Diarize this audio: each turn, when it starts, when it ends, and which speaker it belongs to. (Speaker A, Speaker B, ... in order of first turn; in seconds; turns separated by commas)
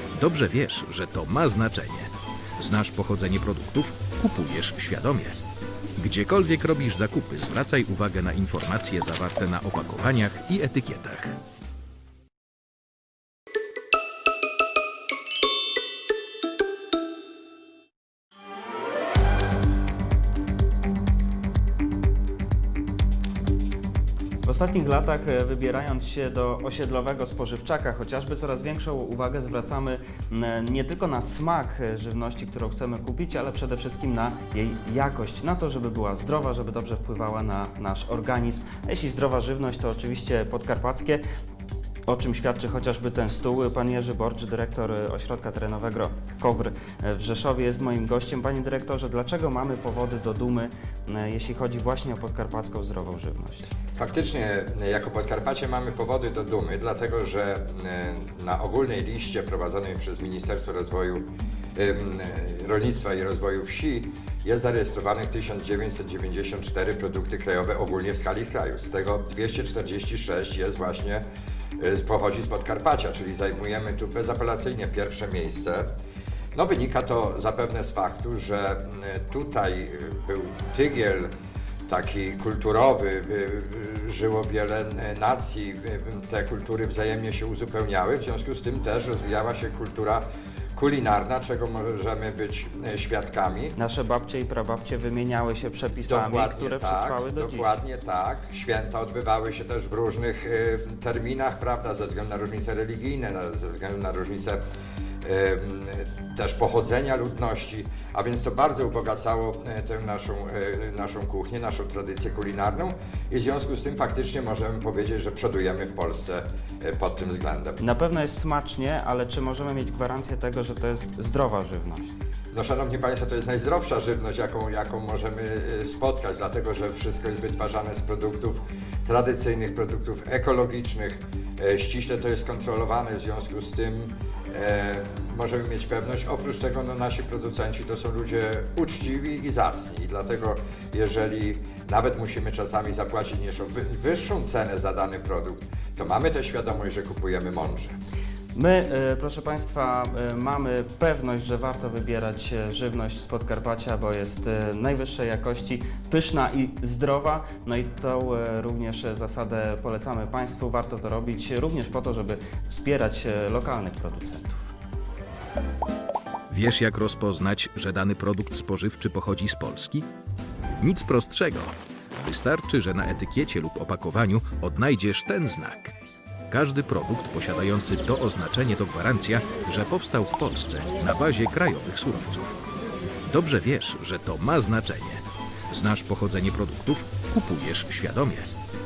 Speaker A: 0.1-5.4, Speaker A: 6.0-11.4, Speaker B: 24.4-41.2, Speaker B: 42.1-53.7, Speaker C: 54.0-71.2, Speaker C: 71.8-75.9, Speaker C: 76.5-81.3, Speaker C: 81.9-93.7, Speaker B: 93.8-97.8, Speaker C: 96.0-104.6, Speaker C: 105.2-117.8, Speaker B: 117.8-122.1, Speaker C: 122.5-147.9, Speaker B: 148.5-164.7, Speaker A: 166.5-170.1, Speaker A: 170.8-175.9, Speaker A: 176.5-182.6, Speaker A: 183.3-188.5